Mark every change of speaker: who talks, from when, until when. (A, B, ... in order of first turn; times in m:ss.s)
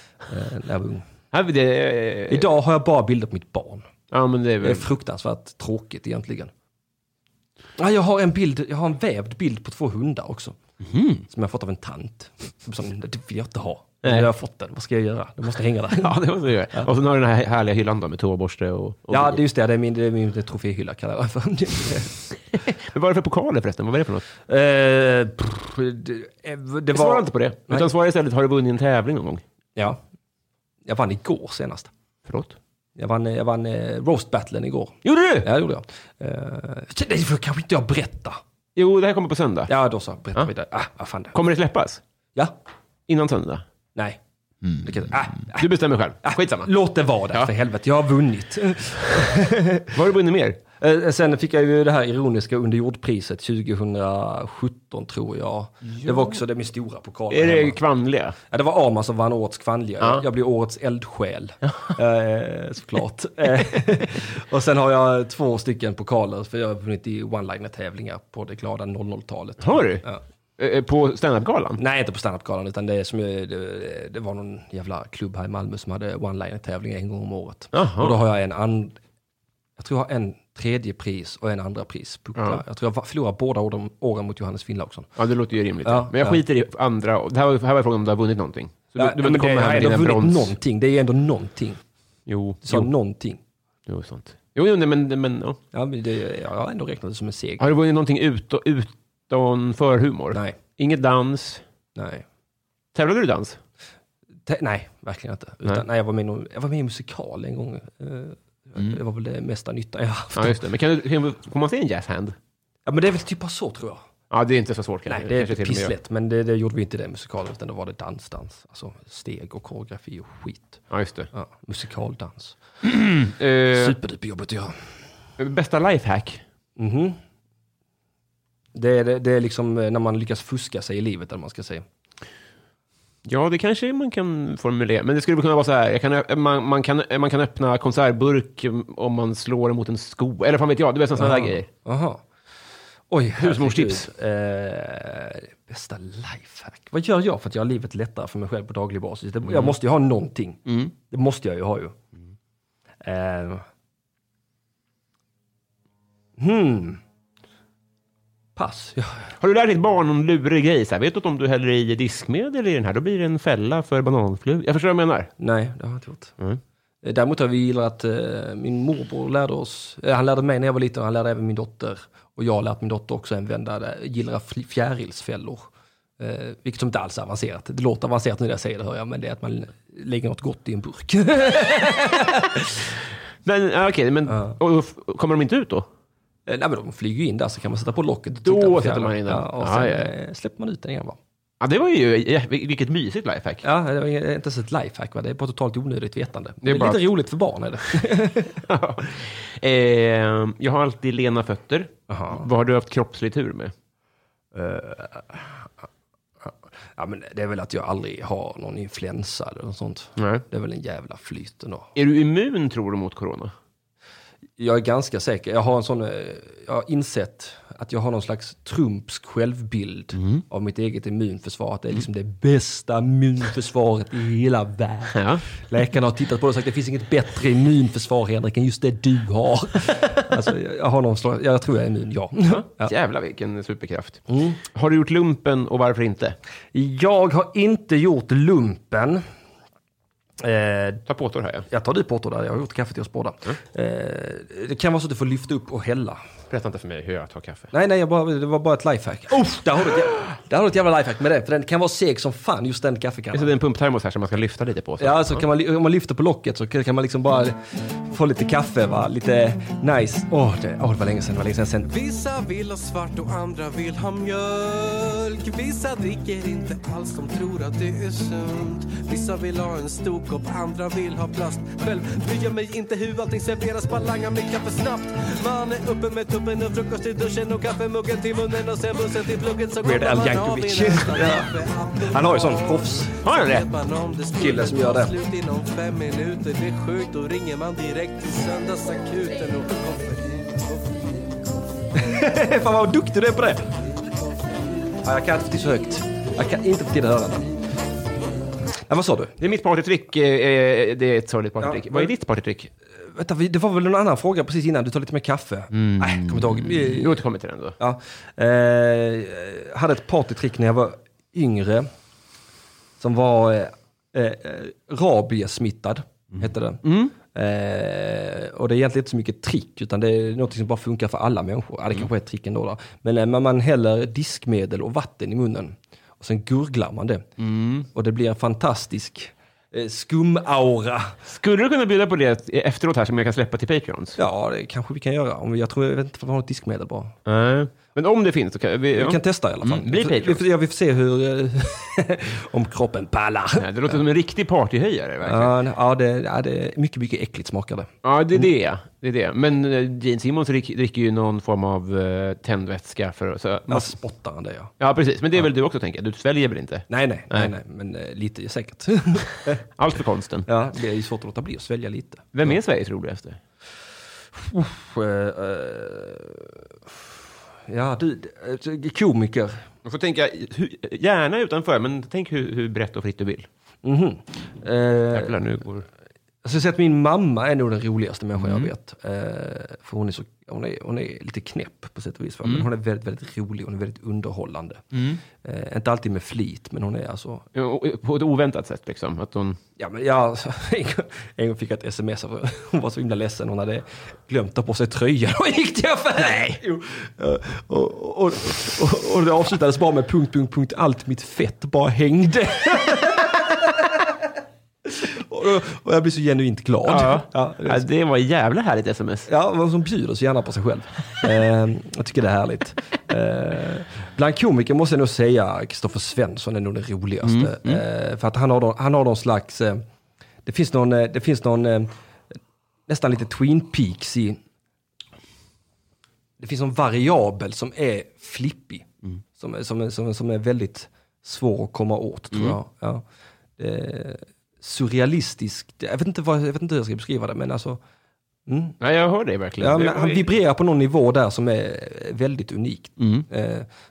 0:00.3-0:01.1 A
0:01.3-0:02.5 B
0:02.3-0:03.9 A
0:04.1-0:04.9 B
0:04.6-0:06.5 A
0:07.8-0:10.6 A
0:10.8-0:11.2 B
0:11.3-0:16.2 A
0:16.0-0:19.4 B
0:19.1-0:22.2 A
0:22.6-0:24.2 B
0:24.5-0:27.9 A
0:26.9-0:29.4 B
0:29.8-0:30.0 A
0:30.8-0:31.9 A
0:32.3-0:32.6 B
0:33.0-0:38.4 A
0:35.0-0:35.5 B
0:38.8-0:39.7 B
0:39.7-0:41.3 A
0:41.3-0:42.0 B
0:43.1-0:43.6 B
0:44.8-0:45.7 A
0:45.5-0:46.7 B
0:46.2-0:50.0 A
0:49.9-0:50.6 B
0:50.8-0:57.8 A
0:55.9-0:56.4 B
0:57.3-0:58.4 B
0:58.5-1:10.2 A
1:01.7-1:01.9 B
1:09.6-1:10.0 B
1:10.6-1:11.8 B
1:11.8-1:19.0 A
1:17.7-1:18.2 B
1:19.8-1:25.1 A
1:22.4-1:22.6 B
1:25.2-1:30.5 B
1:25.8-1:26.4 A
1:29.0-1:31.8 A
1:32.3-1:32.9 B
1:32.6-1:33.4 A
1:33.9-1:35.6 B
1:35.7-1:37.7 A
1:37.6-1:41.6 B
1:42.0-1:42.2 A
1:42.9-1:43.6 B
1:44.4-1:50.6 A
1:50.3-1:52.4 B
1:52.8-1:54.0 A
1:54.3-1:55.9 B
1:55.1-2:02.6 A
2:00.9-2:01.3 B
2:02.8-2:04.0 B
2:03.7-2:04.8 A
2:05.4-2:06.4 B
2:06.8-2:07.2 A
2:08.7-2:11.8 A
2:13.2-2:21.7 B
2:21.2-2:22.2 A
2:23.1-2:32.0 A
2:23.4-2:24.1 B
2:29.4-2:29.7 B
2:30.6-2:30.9 B
2:33.0-2:33.6 A
2:36.4-2:37.0 A
2:38.6-2:39.3 A
2:39.4-2:45.3 B
2:45.4-2:46.3 A
2:47.0-3:02.9 A
3:03.4-3:05.9 B
3:04.3-3:04.6 A
3:06.5-3:11.2 A
3:08.3-3:10.1 B
3:11.6-3:13.6 B
3:13.6-3:18.6 A
3:16.6-3:17.1 B
3:18.6-3:23.7 B
3:22.1-3:22.4 A
3:24.5-3:25.7 A
3:26.4-3:31.9 A
3:30.2-3:30.4 B
3:31.9-3:33.5 B
3:34.6-3:52.9 A
3:40.2-3:40.4 B
3:45.1-3:45.4 B
3:52.5-3:56.4 B
3:54.3-3:54.6 A
3:56.7-3:59.2 A
4:00.4-4:01.0 A
4:01.1-4:01.7 B
4:01.7-4:06.2 A
4:06.5-4:07.7 B
4:07.7-4:13.5 A
4:13.3-4:15.4 B
4:15.0-4:21.9 A
4:21.9-4:51.2 C
4:39.8-4:43.1 A
4:43.2-4:43.7 B
4:44.4-4:45.1 A
4:51.9-4:53.7 A
4:55.0-4:57.5 A
4:58.9-4:59.3 A
4:59.4-5:02.7 B
5:01.6-5:02.1 A
5:03.0-5:07.2 A
5:05.7-5:07.8 B
5:07.8-5:11.9 A
5:13.0-5:27.2 A
5:16.4-5:17.1 B
5:27.4-5:27.9 B
5:27.9-5:31.2 A
5:31.3-5:34.2 B
5:34.2-5:37.1 A
5:37.2-5:40.4 B
5:38.9-5:44.0 A
5:43.6-5:45.5 B
5:45.2-5:48.4 A
5:48.0-5:53.9 B
5:53.7-5:54.7 A
5:54.8-5:57.5 B
5:56.9-5:59.6 A
5:59.8-6:00.5 B
6:00.5-6:02.5 A
6:02.3-6:03.4 B
6:04.3-6:07.2 A
6:07.7-6:09.6 A
6:09.8-6:13.5 B
6:13.8-6:15.4 A
6:15.1-6:15.8 B
6:16.4-6:24.8 A
6:18.4-6:18.7 B
6:24.9-6:25.2 B
6:25.4-6:27.4 A
6:27.5-6:29.6 B
6:29.8-6:44.2 A
6:36.2-6:36.6 B
6:44.8-6:47.8 A
6:46.8-6:49.3 B
6:49.3-6:59.8 A
6:57.2-6:57.8 B
7:00.4-7:01.9 A
7:02.9-7:04.4 A
7:06.4-7:13.0 A
7:13.6-7:17.8 A
7:18.5-7:18.8 A
7:18.8-7:20.3 B
7:19.6-7:23.7 A
7:23.0-7:23.2 B